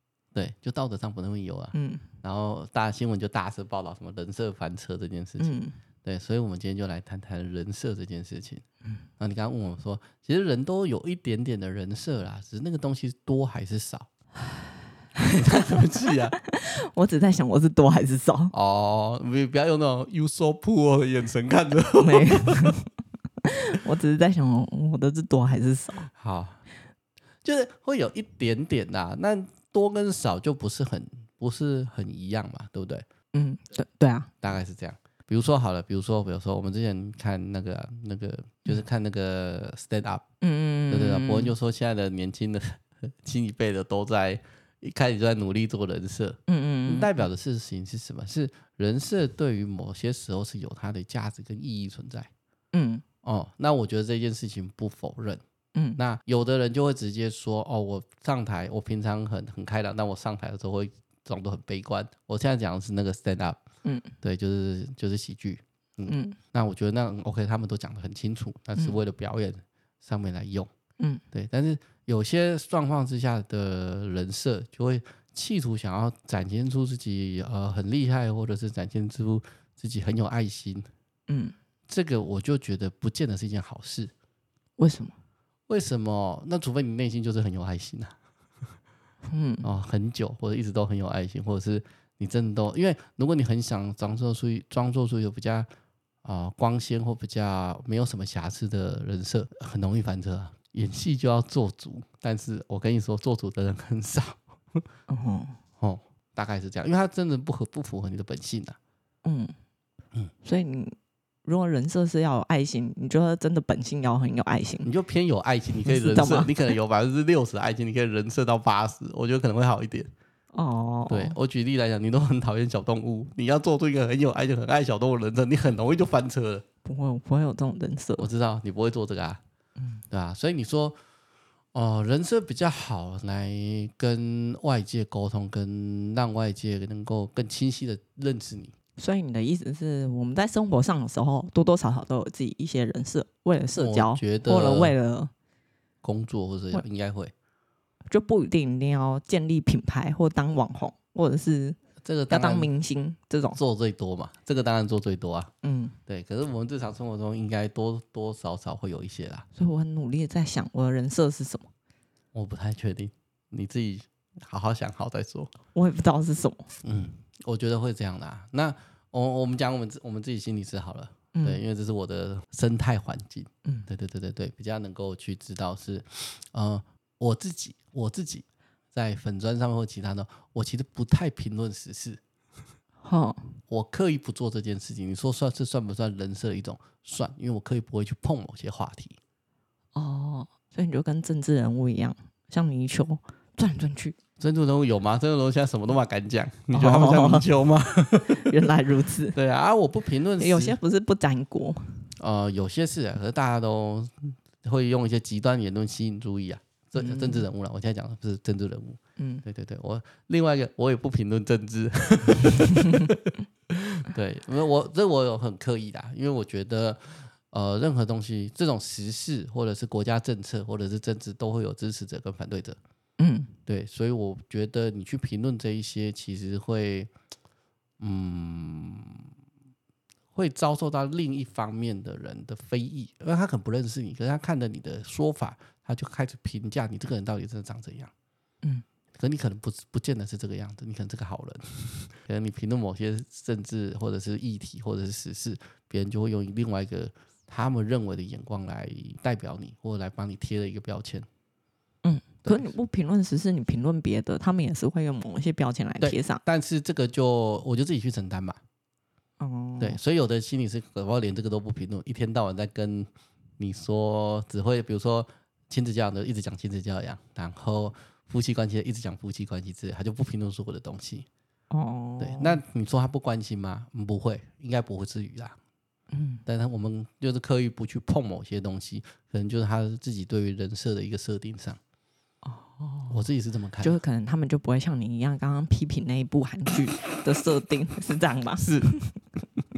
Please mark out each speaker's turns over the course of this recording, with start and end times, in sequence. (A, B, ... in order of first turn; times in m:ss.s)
0:00.4-0:08.6 A
0:01.7-0:02.1 B
0:05.4-0:05.8 B
0:09.2-0:14.1 A
0:15.2-0:16.4 A
0:15.4-0:15.8 B
0:16.4-0:18.5 B
0:18.5-0:22.8 A
0:22.0-0:22.9 B
0:23.4-0:26.1 B
0:26.1-0:26.6 A
0:27.4-0:33.0 A
0:33.3-0:34.3 B
0:34.4-0:40.2 A
0:40.4-0:41.5 B
0:40.9-0:52.3 A
0:46.5-0:47.1 B
0:52.7-0:53.0 B
0:53.2-0:55.4 A
0:55.7-0:56.0 B
0:56.0-1:03.6 A
1:03.8-1:04.1 B
1:04.2-1:10.7 A
1:06.1-1:06.4 B
1:11.3-1:20.9 A
1:21.3-1:21.6 B
1:21.9-1:24.1 A
1:24.8-1:25.2 B
1:25.7-1:28.1 A
1:29.2-1:29.7 B
1:29.6-1:35.7 A
1:36.2-1:44.8 A
1:45.1-1:45.6 B
1:45.8-1:48.8 A
1:49.2-1:49.5 B
1:50.4-1:54.9 B
1:54.8-2:00.1 A
1:55.8-1:56.5 B
2:00.5-2:01.4 B
2:01.1-2:06.6 A
2:06.8-2:08.3 B
2:08.2-2:09.4 A
2:10.1-2:11.0 A
2:11.7-2:18.7 A
2:19.0-2:25.3 B
2:23.8-2:24.9 A
2:26.0-2:27.3 A
2:28.1-2:31.8 B
2:32.0-2:32.7 A
2:32.3-2:33.6 B
2:33.5-2:35.5 A
2:35.6-2:36.0 B
2:36.1-2:39.5 A
2:39.6-2:41.7 B
2:42.3-2:45.5 A
2:45.7-2:46.7 B
2:46.8-3:02.2 A
2:51.3-2:51.6 B
3:03.0-3:03.5 B
3:03.7-3:09.2 A
3:10.0-3:14.2 B
3:14.4-3:18.5 A
3:16.7-3:17.5 B
3:18.3-3:19.4 B
3:19.3-3:20.8 A
3:20.4-3:22.1 B
3:22.2-3:42.8 A
3:27.0-3:27.5 B
3:29.2-3:29.4 B
3:43.2-3:43.5 B
3:43.7-3:47.1 A
3:48.0-3:49.3 A
3:50.3-3:58.1 A
3:59.2-4:11.3 A
4:12.0-4:16.4 B
4:12.4-4:12.7 A
4:16.0-4:18.6 A
4:19.4-4:20.0 B
4:19.8-4:23.1 A
4:23.6-4:31.3 A
4:31.7-4:32.6 B
4:32.2-4:35.6 A
4:36.1-4:36.4 B
4:36.5-4:41.8 A
4:42.4-4:43.3 B
4:43.1-4:44.0 A
4:43.8-4:49.2 B
4:48.6-4:48.9 A